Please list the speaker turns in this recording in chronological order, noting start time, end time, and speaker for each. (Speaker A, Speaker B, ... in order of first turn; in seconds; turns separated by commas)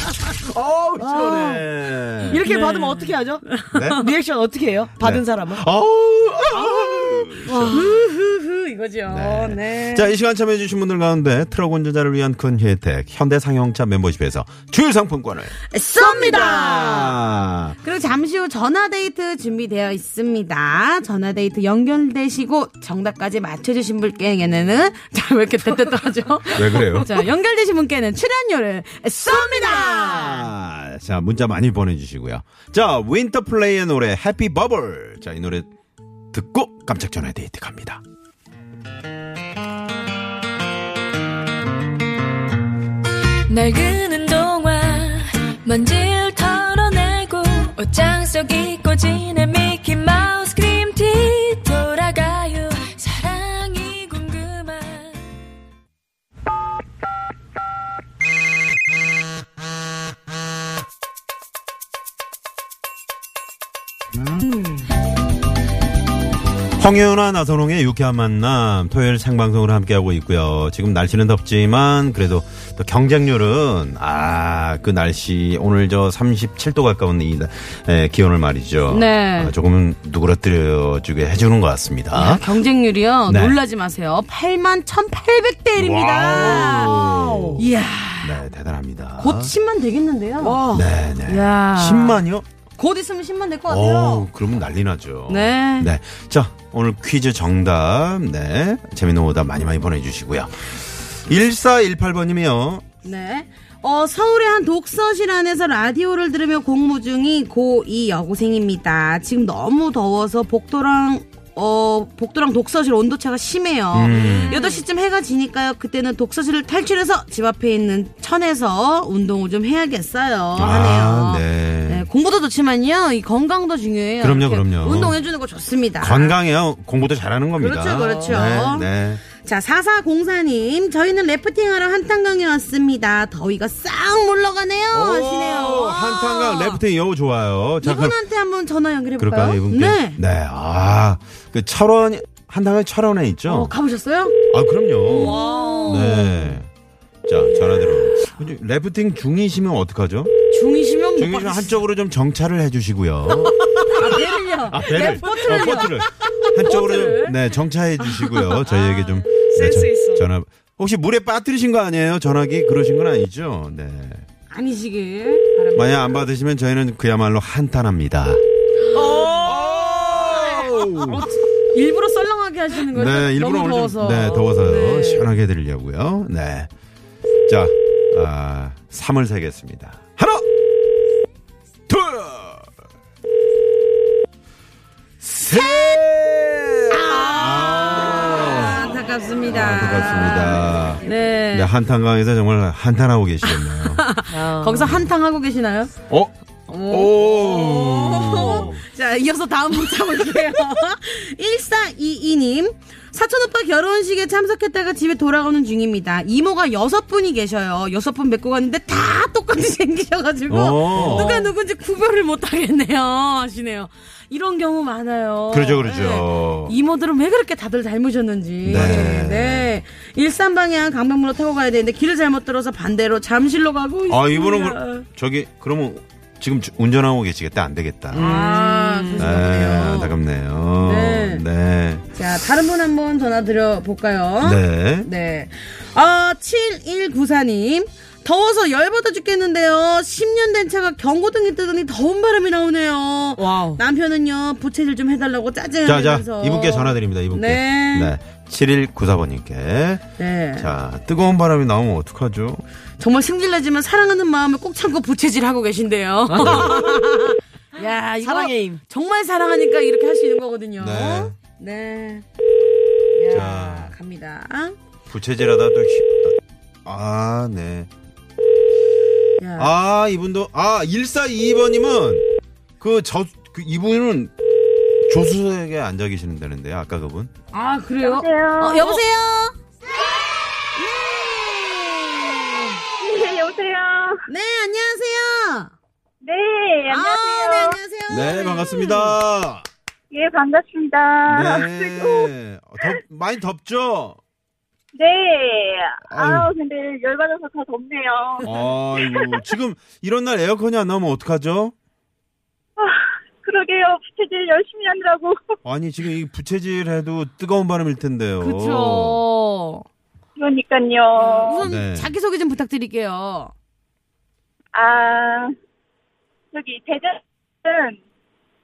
Speaker A: 0.3-2.5, Speaker B: 1.0-1.6, Speaker B: 2.3-3.5, Speaker C: 2.5-4.0, Speaker A: 3.7-4.0, Speaker B: 4.0-5.6, Speaker A: 5.0-7.8, Speaker C: 6.6-10.1, Speaker B: 7.5-7.8, Speaker A: 9.1-17.8, Speaker C: 15.7-17.2, Speaker C: 17.8-30.5, Speaker A: 26.5-27.3, Speaker A: 29.3-35.7, Speaker A: 36.3-38.0, Speaker D: 43.5-55.2, Speaker A: 66.8-82.5, Speaker C: 78.9-79.5, Speaker C: 82.1-87.0, Speaker A: 83.3-83.6, Speaker A: 85.8-87.6, Speaker B: 86.3-87.6, Speaker C: 87.6-88.4, Speaker A: 88.2-89.5, Speaker C: 89.2-90.6, Speaker B: 90.4-90.8, Speaker A: 90.7-92.5, Speaker C: 91.2-92.2, Speaker C: 92.8-94.3, Speaker A: 93.7-102.8, Speaker C: 95.3-95.9, Speaker C: 103.0-126.3, Speaker A: 113.9-114.6, Speaker B: 114.1-114.8, Speaker A: 120.6-122.1, Speaker A: 124.2-125.2, Speaker A: 126.0-129.2, Speaker C: 127.6-136.8, Speaker B: 127.9-128.4, Speaker A: 134.9-138.2, Speaker C: 137.8-140.2, Speaker A: 139.2-143.8, Speaker C: 143.5-144.3, Speaker A: 144.5-146.7, Speaker B: 145.1-146.3, Speaker C: 145.2-146.2, Speaker A: 147.3-150.3, Speaker C: 150.5-151.8, Speaker A: 151.2-164.2, Speaker C: 153.4-157.3, Speaker B: 158.7-160.2, Speaker C: 164.5-166.2, Speaker A: 165.8-168.4, Speaker B: 168.9-170.6, Speaker A: 169.2-171.3, Speaker C: 171.1-175.3, Speaker A: 172.9-176.7, Speaker A: 177.5-180.5, Speaker A: 181.9-182.7, Speaker A: 185.2-188.9, Speaker C: 186.9-191.7, Speaker A: 189.5-194.0, Speaker C: 193.4-195.9, Speaker B: 194.3-194.9, Speaker C: 196.7-225.0, Speaker A: 196.9-198.8, Speaker A: 210.5-211.4, Speaker B: 211.0-211.5, Speaker A: 215.5-216.8, Speaker A: 218.6-219.7, Speaker B: 218.7-219.2, Speaker A: 224.1-228.3, Speaker B: 228.1-229.3, Speaker C: 228.2-230.2, Speaker A: 229.2-232.0, Speaker C: 230.8-231.4, Speaker C: 232.1-248.1, Speaker A: 234.4-235.1, Speaker B: 243.4-243.8, Speaker A: 245.8-250.0, Speaker C: 250.2-250.7, Speaker A: 250.6-252.6, Speaker C: 253.0-262.2, Speaker B: 256.3-257.1, Speaker A: 256.4-256.8, Speaker B: 258.2-258.8, Speaker A: 260.8-261.4, Speaker C: 263.1-264.8, Speaker A: 263.3-263.9, Speaker A: 265.1-267.9, Speaker C: 269.4-269.7, Speaker A: 269.6-272.2, Speaker A: 272.8-274.3, Speaker A: 275.1-277.3, Speaker C: 277.5-279.6, Speaker E: 278.0-279.0, Speaker C: 280.8-282.8, Speaker E: 283.0-284.2, Speaker C: 284.3-285.7, Speaker E: 286.2-287.8, Speaker C: 286.9-289.2, Speaker A: 288.1-289.6, Speaker E: 290.1-292.3, Speaker A: 291.3-294.2, Speaker E: 294.9-299.2, Speaker A: 296.0-296.5, Speaker A: 298.4-301.7, Speaker E: 302.8-305.4, Speaker A: 305.6-309.2, Speaker C: 308.4-309.9, Speaker E: 310.4-311.6, Speaker C: 311.2-313.5, Speaker A: 311.6-312.1, Speaker E: 314.7-315.5, Speaker E: 316.5-318.0